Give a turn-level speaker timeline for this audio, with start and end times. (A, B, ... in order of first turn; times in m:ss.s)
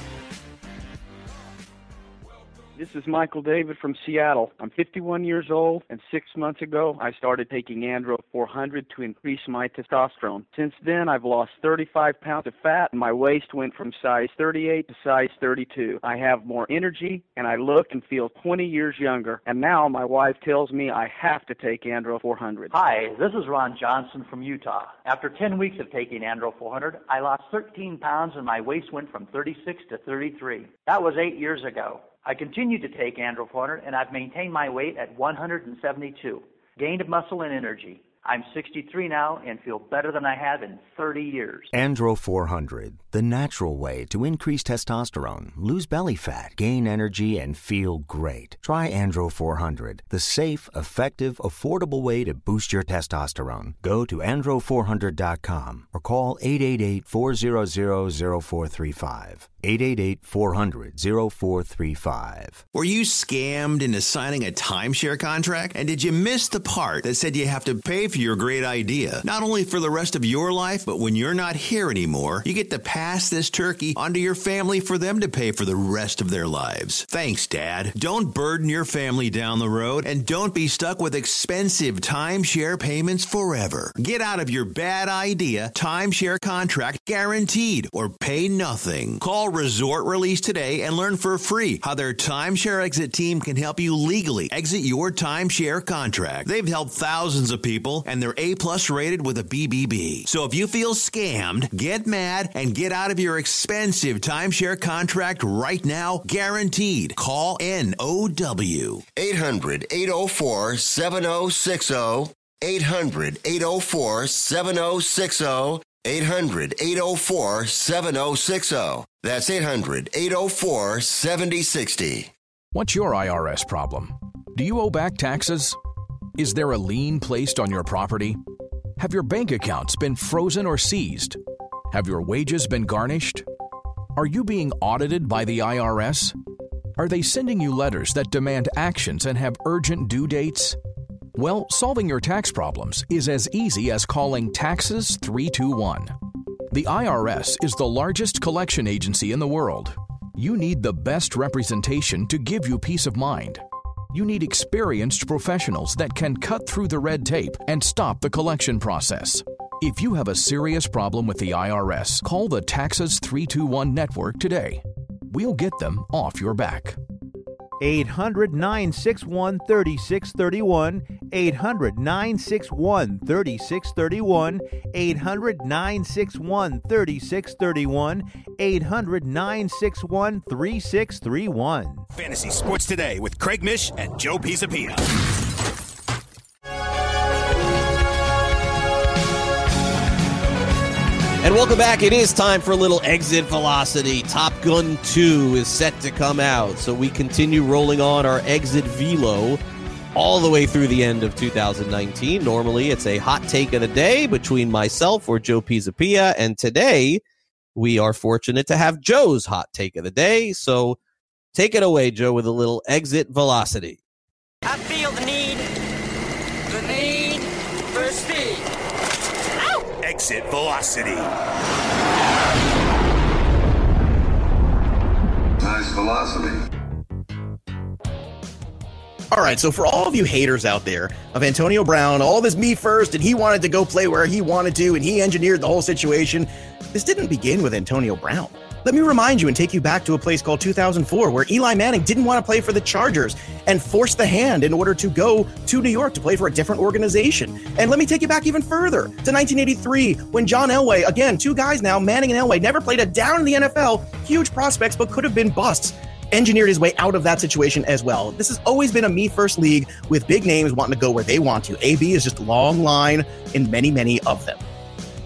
0:02.8-0:22.7 A
0:22.7-0:41.7 B
0:41.7-1:02.6 C
1:02.7-1:49.1 D
1:49.1-2:02.3 E
2:02.7-2:05.8 F
2:06.4-2:08.4 F
2:09.0-2:11.4 F
2:11.9-2:13.4 F
2:14.2-2:16.4 F
2:17.0-2:20.8 F
2:21.3-2:26.1 F
2:26.7-2:47.0 F
2:47.8-3:02.1 G
3:02.1-3:05.1 H
3:11.4-3:19.6 I
3:20.2-3:27.2 I
3:27.8-3:31.0 I
3:31.5-3:34.0 I
3:34.6-3:35.7 J
3:36.7-3:38.7 J
3:40.0-3:41.3 H
3:46.0-3:46.4 H
3:49.3-4:24.6 K